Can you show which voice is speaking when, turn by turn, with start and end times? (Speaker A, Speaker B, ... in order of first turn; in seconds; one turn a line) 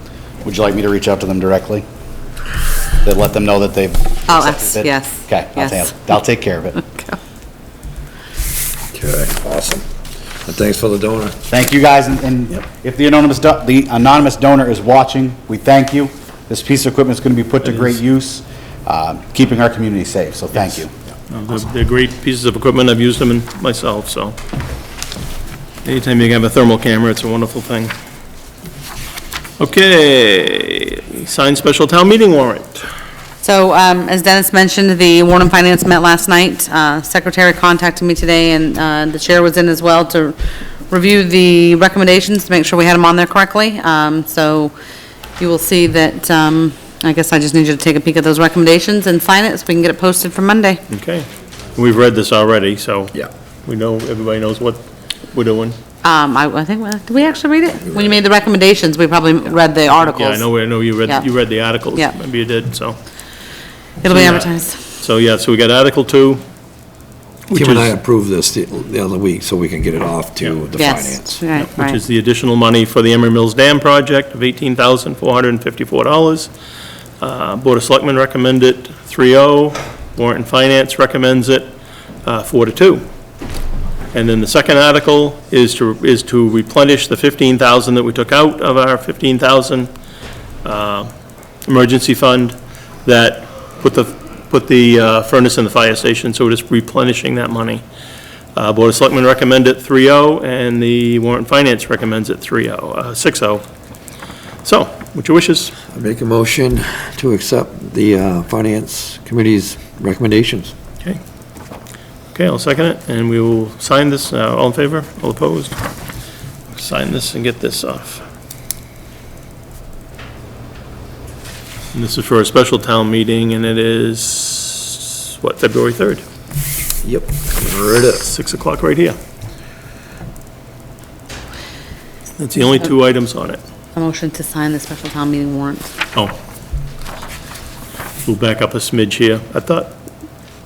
Speaker A: 0.4-1.8
Speaker A: 3.0-6.8
Speaker B: 4.3-5.9
Speaker B: 6.8-7.2
Speaker C: 8.9-9.8
Speaker C: 10.4-11.4
Speaker A: 11.5-20.9
Speaker D: 21.3-24.4
Speaker D: 25.8-27.9
Speaker D: 29.6-32.8
Speaker B: 33.4-40.4
Speaker B: 40.9-44.7
Speaker B: 45.4-50.8
Speaker D: 50.9-55.8
Speaker B: 56.0-60.4
Speaker D: 59.9-63.0
Speaker B: 64.0-64.8
Speaker D: 64.1-66.4
Speaker D: 67.5-68.0
Speaker C: 67.5-71.4
Speaker B: 70.8-72.0
Speaker D: 71.5-76.5
Speaker D: 77.2-81.7
Speaker D: 82.2-83.0
Speaker D: 84.1-89.9
Speaker D: 90.6-91.1
Speaker D: 91.7-97.8
Speaker D: 98.5-103.6
Speaker D: 104.6-105.7
Speaker C: 105.9-110.7
Speaker D: 112.3-115.8
Speaker D: 116.7-118.2
Speaker D: 121.9-126.2
Speaker C: 127.0-128.3
Speaker D: 128.2-129.2
Speaker D: 132.4-133.6
Speaker B: 133.9-135.9
Speaker D: 138.2-139.9